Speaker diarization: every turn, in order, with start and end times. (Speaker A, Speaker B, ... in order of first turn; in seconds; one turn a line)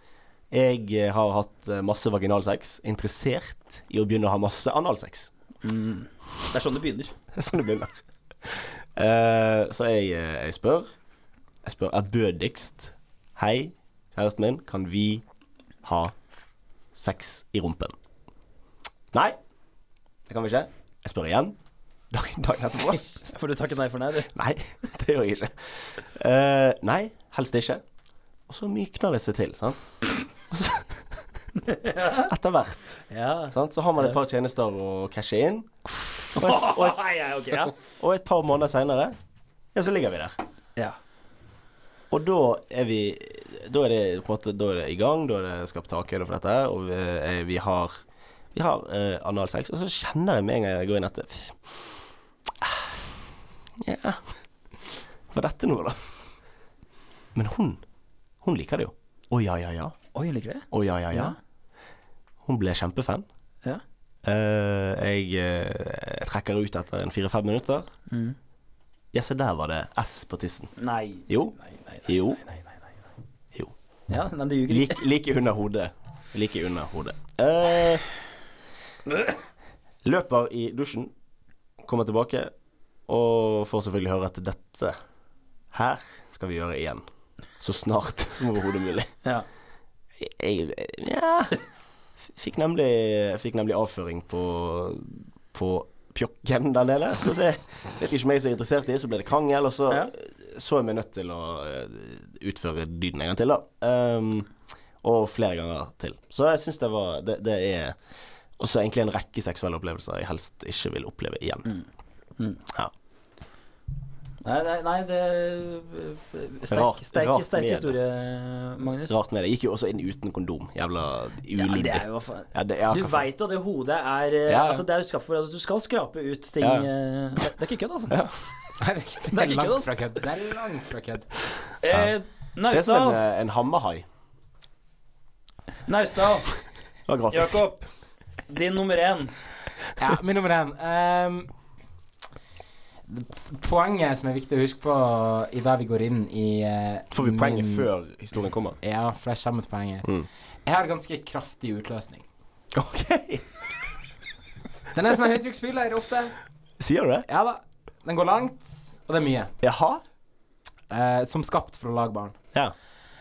Speaker A: 0.5-5.3
Speaker B: 5.6-7.2
Speaker A: 7.3-10.9
Speaker A: 11.6-15.2
Speaker A: 15.8-16.1
Speaker A: 16.9-17.9
Speaker A: 19.1-19.4
Speaker A: 20.3-21.6
Speaker A: 22.1-23.2
Speaker B: 23.3-24.3
Speaker A: 24.3-27.8
Speaker A: 28.5-29.9
Speaker A: 30.5-31.2
Speaker B: 31.7-32.3
Speaker A: 32.3-33.0
Speaker B: 33.1-34.2
Speaker A: 33.5-35.7
Speaker A: 36.3-37.0
Speaker B: 36.3-37.8
Speaker A: 38.0-39.2
Speaker A: 39.8-40.4
Speaker A: 42.1-48.0
Speaker A: 48.5-51.9
Speaker A: 52.6-53.0
Speaker A: 53.8-54.2
Speaker A: 55.3-56.0
Speaker A: 57.4-57.8
Speaker A: 58.4-60.0
Speaker B: 60.1-61.4
Speaker A: 60.7-61.4
Speaker A: 62.5-63.3
Speaker A: 64.2-67.9
Speaker B: 68.1-68.4
Speaker A: 69.1-70.7
Speaker B: 70.8-72.8
Speaker A: 71.3-71.5
Speaker A: 72.1-72.4
Speaker B: 74.1-75.0
Speaker A: 74.7-78.0
Speaker B: 79.1-79.4
Speaker A: 80.0-81.1
Speaker A: 81.8-82.5
Speaker A: 83.1-85.0
Speaker A: 85.7-87.0
Speaker A: 87.6-89.1
Speaker A: 90.2-91.6
Speaker A: 92.3-104.5
Speaker A: 105.0-108.0
Speaker A: 108.6-111.7
Speaker B: 114.4-119.2
Speaker A: 116.7-118.0
Speaker A: 119.1-123.3
Speaker B: 121.6-128.2
Speaker A: 124.5-124.8
Speaker A: 126.6-126.9
Speaker C: 128.8-131.3
Speaker B: 129.3-129.9
Speaker B: 131.8-133.2
Speaker A: 132.7-134.1
Speaker B: 135.9-136.5
Speaker A: 137.1-137.6
Speaker B: 137.3-137.9
Speaker B: 138.5-139.3
Speaker C: 140.0-141.5
Speaker C: 143.1-147.9
Speaker A: 147.1-148.8
Speaker C: 148.8-150.1
Speaker C: 150.7-152.2
Speaker A: 152.7-153.4
Speaker C: 154.9-156.3
Speaker A: 156.8-157.3
Speaker C: 157.3-159.5
Speaker A: 159.6-160.0
Speaker C: 160.9-162.4